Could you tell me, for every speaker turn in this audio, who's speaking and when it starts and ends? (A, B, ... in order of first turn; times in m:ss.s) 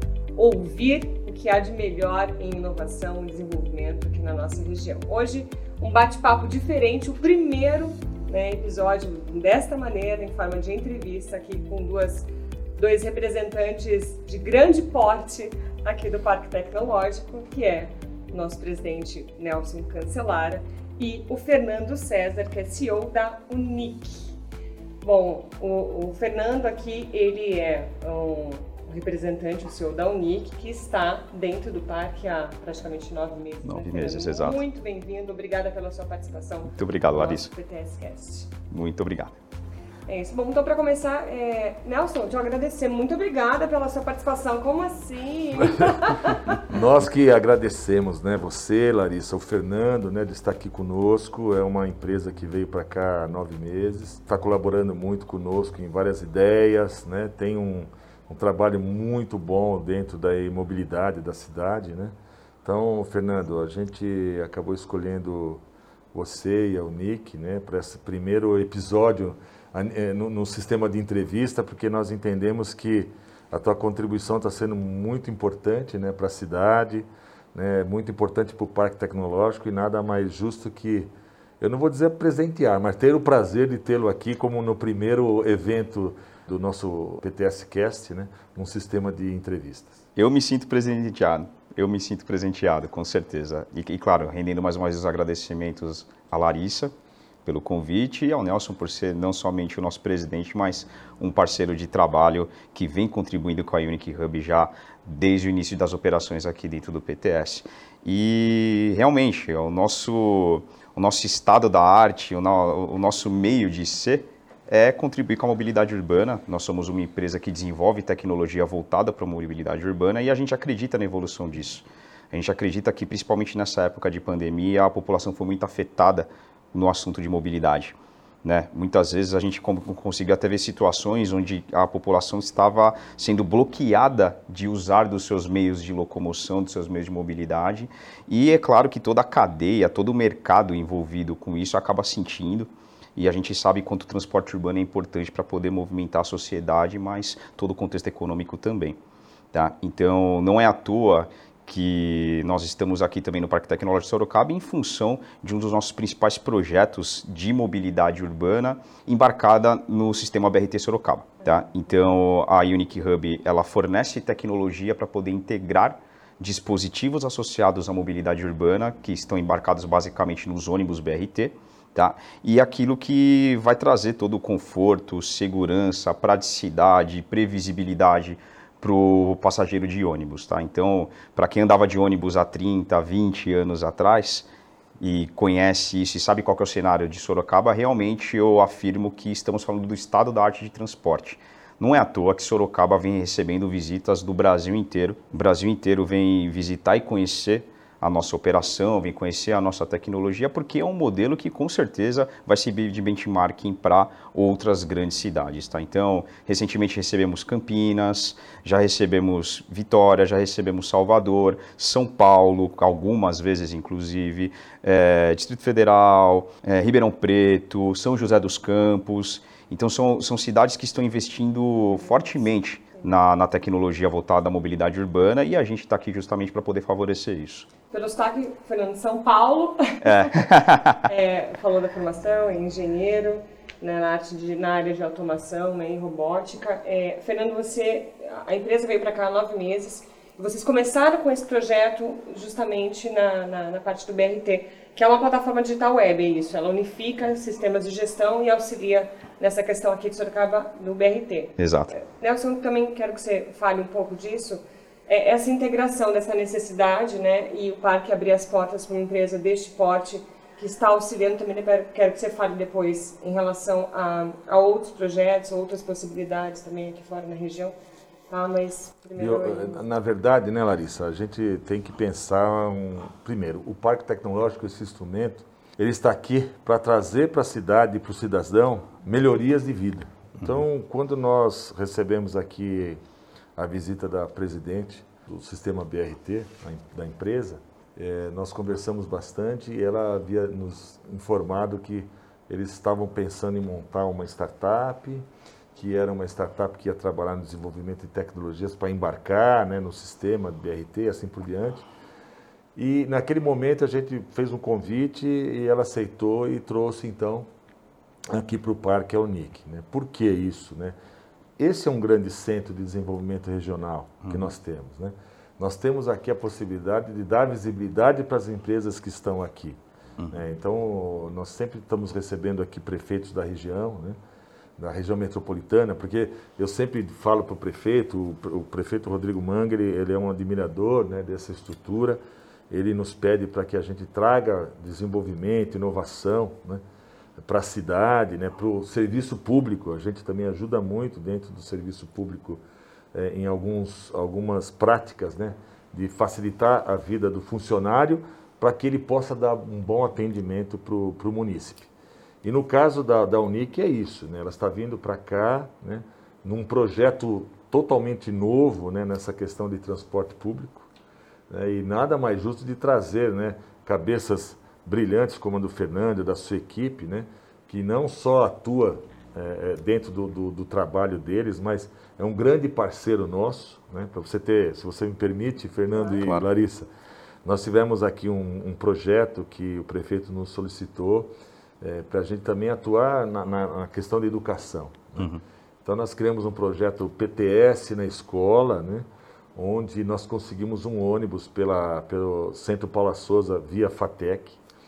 0:00.4-0:24.4 A
0:25.0-0:38.5 A
0:33.6-0:34.6 B
0:36.7-0:37.5 B
0:38.7-0:39.4 B
0:40.1-0:46.6 A
0:46.6-1:21.1 C
1:21.6-1:30.0 C
1:30.2-1:36.9 B
1:37.4-2:29.0 B
2:29.5-3:04.5 B
3:05.0-3:47.7 B
3:42.0-3:43.1 A
3:47.9-3:50.5 A
3:50.0-3:51.0 B
3:51.0-4:27.8 A
4:11.6-4:11.9 B
4:28.3-4:29.8 A
4:29.2-4:43.0 C
4:43.6-5:01.8 C
5:02.8-5:07.5 C
5:08.3-5:11.0 C
5:11.6-5:19.8 C
5:14.2-5:14.5 B
5:20.3-5:24.2 C
5:24.8-5:36.8 C
5:37.4-5:42.6 C
5:43.1-5:51.9 C
5:52.4-6:00.9 C
6:01.5-6:16.9 C
6:16.2-6:16.5 B
6:17.4-6:25.3 C
6:25.8-6:34.6 C